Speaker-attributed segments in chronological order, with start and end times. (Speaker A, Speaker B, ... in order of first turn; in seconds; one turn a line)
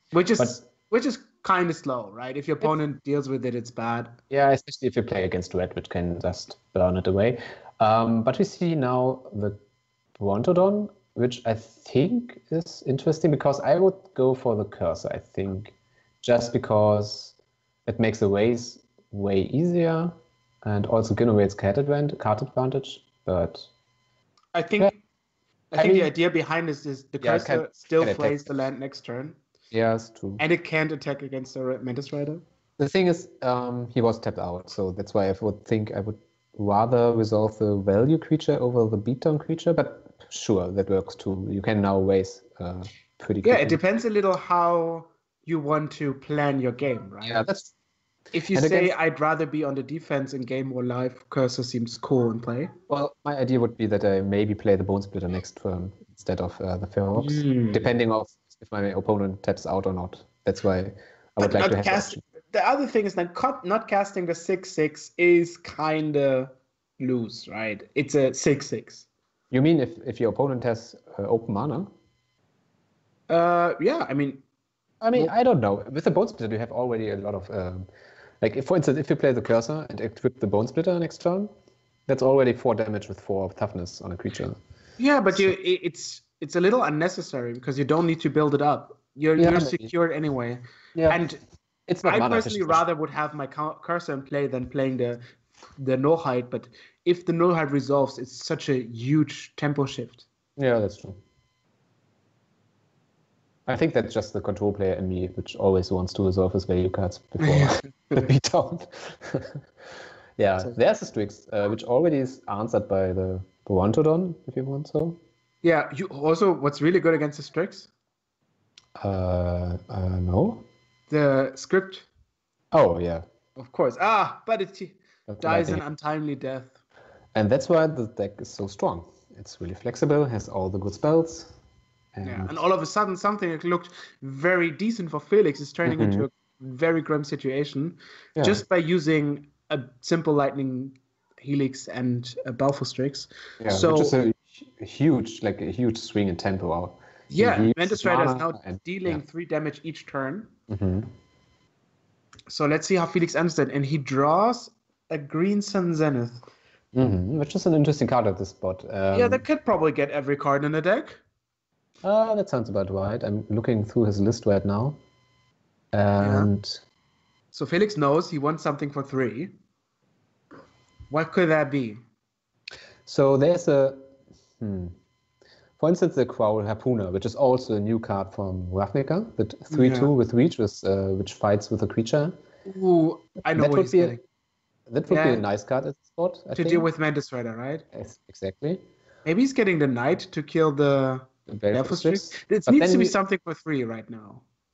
Speaker A: 0.1-4.1
Speaker B: 4.3-9.6
Speaker B: 10.2-17.3
Speaker B: 17.9-23.7
Speaker A: 24.5-25.0
Speaker A: 25.7-29.4
Speaker B: 25.8-26.1
Speaker B: 27.2-28.5
Speaker B: 29.7-30.4
Speaker A: 30.4-32.4
Speaker B: 32.8-43.8
Speaker A: 43.4-47.4
Speaker B: 47.2-47.7
Speaker A: 48.3-52.7
Speaker B: 48.5-48.9
Speaker B: 52.9-62.2
Speaker A: 57.2-57.9
Speaker A: 61.4-69.0
Speaker B: 69.5-71.9
Speaker A: 73.3-74.4
Speaker B: 75.0-77.9
Speaker B: 78.4-81.5
Speaker B: 82.1-84.6
Speaker A: 85.0-91.4
Speaker B: 89.4-89.9
Speaker B: 91.0-91.2
Speaker B: 91.9-92.8
Speaker A: 92.0-95.2
Speaker A: 95.8-100.2
Speaker B: 100.6-101.2
Speaker B: 103.7-109.6
Speaker A: 107.4-107.8
Speaker B: 110.4-115.2
Speaker A: 115.6-117.9
Speaker B: 119.0-120.6
Speaker A: 121.1-122.1
Speaker B: 122.7-123.2
Speaker A: 123.5-126.8
Speaker B: 125.3-125.8
Speaker B: 127.3-131.5
Speaker B: 132.1-132.6
Speaker A: 132.2-144.2
Speaker B: 135.8-136.3
Speaker B: 138.3-138.6
Speaker B: 143.6-149.2
Speaker A: 147.3-150.5
Speaker B: 150.7-151.1
Speaker A: 152.5-156.4
Speaker B: 156.9-159.4
Speaker A: 159.1-161.2
Speaker B: 162.0-165.0
Speaker B: 165.9-166.8
Speaker A: 166.2-166.5
Speaker A: 167.5-169.5
Speaker A: 171.1-172.0
Speaker B: 173.1-174.0
Speaker B: 174.6-174.9
Speaker B: 175.8-182.3
Speaker A: 179.7-180.1
Speaker A: 182.7-184.2
Speaker B: 183.5-184.2
Speaker B: 184.9-186.9
Speaker A: 185.1-185.4
Speaker A: 186.5-187.8
Speaker B: 187.9-188.8
Speaker A: 189.2-194.4
Speaker B: 191.5-193.1